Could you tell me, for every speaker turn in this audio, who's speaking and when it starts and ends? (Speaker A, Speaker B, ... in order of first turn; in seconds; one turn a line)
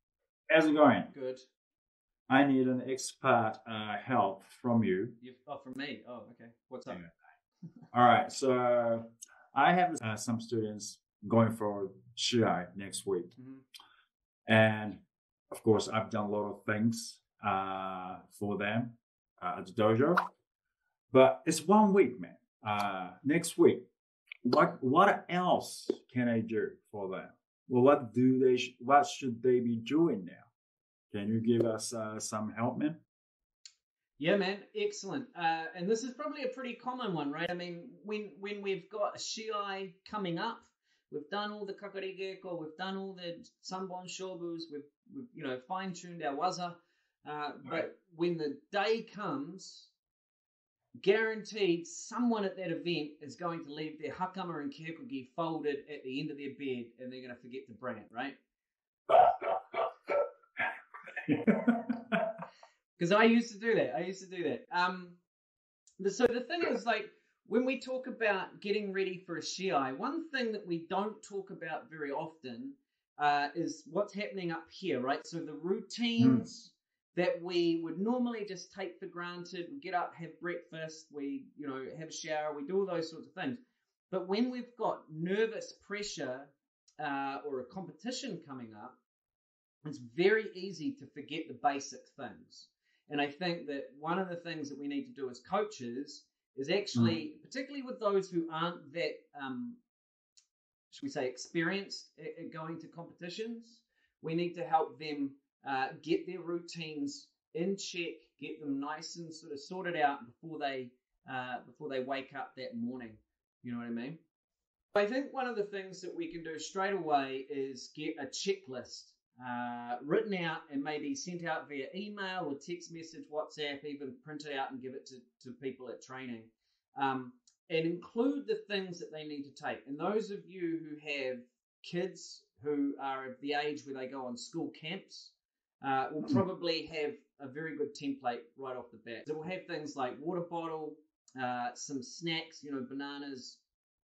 Speaker A: 0.5-1.1
Speaker B: 1.1-1.4
Speaker A: 2.3-5.2
Speaker B: 5.2-7.0
Speaker A: 7.9-13.3
Speaker B: 13.4-13.6
Speaker A: 14.5-20.2
Speaker A: 21.1-23.8
Speaker A: 24.4-30.5
Speaker A: 31.1-33.0
Speaker B: 34.2-49.9
Speaker B: 51.0-58.4
Speaker A: 59.1-59.8
Speaker A: 61.3-62.2
Speaker B: 63.0-65.2
Speaker B: 66.0-83.6
Speaker A: 76.2-76.4
Speaker B: 84.1-89.0
Speaker B: 89.8-99.8
Speaker B: 100.9-114.2
Speaker B: 114.9-143.6